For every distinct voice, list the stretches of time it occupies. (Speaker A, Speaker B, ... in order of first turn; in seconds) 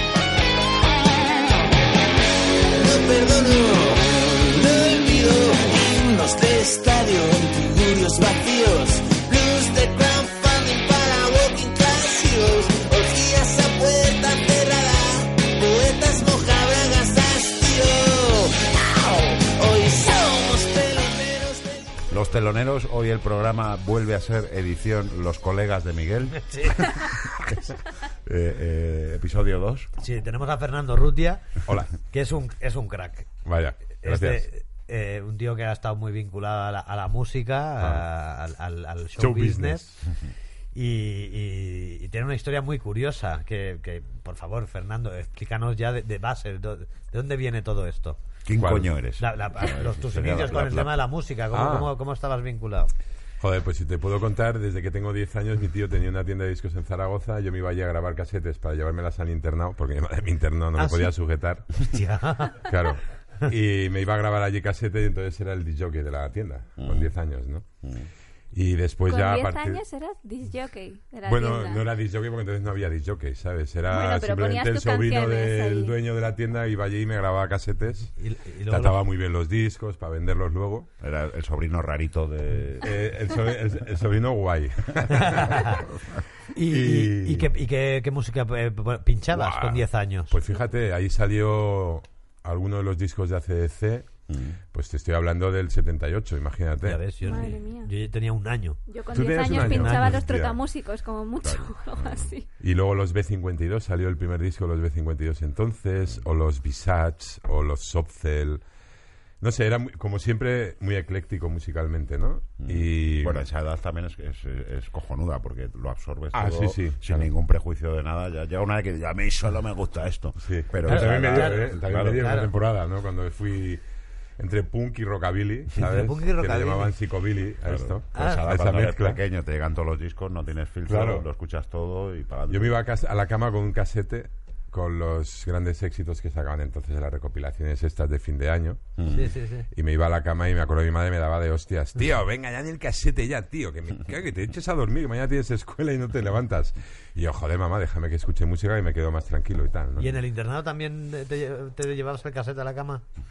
Speaker A: 2.7-22.0
Speaker B: 22.1-27.7, 28.2-29.9, 48.4-51.1, 66.8-67.1, 67.8-68.1, 81.0-83.1, 94.3-94.6, 99.5-100.3, 101.4-102.3, 112.6-122.4, 127.7-132.8, 139.0-139.3
Speaker C: 26.3-27.1, 30.0-31.5, 32.0-33.3, 34.0-39.8, 40.8-48.2, 49.2-52.9, 60.8-61.1, 61.8-62.7, 78.2-79.0, 85.1-85.8, 86.5-90.3, 96.8-98.8, 120.9-122.5, 125.8-126.9, 128.1-128.4, 139.1-139.7, 150.0-153.1
Speaker D: 31.7-31.9, 33.4-34.5, 37.8-38.0, 39.2-40.0, 48.6-48.9, 51.5-51.9, 53.4-61.9, 62.6-67.7, 68.5-69.8, 71.2-78.1, 78.7-80.9, 82.8-85.8, 86.7-87.5, 89.3-94.2, 94.7-97.0, 99.1-100.6, 102.6-108.6, 109.4-113.5, 116.3-117.3, 120.4-123.8, 124.4-129.2, 130.9-131.2, 132.5-139.0, 139.7-150.2
Speaker E: 69.1-71.8, 73.9-76.0, 97.2-97.9, 98.9-102.5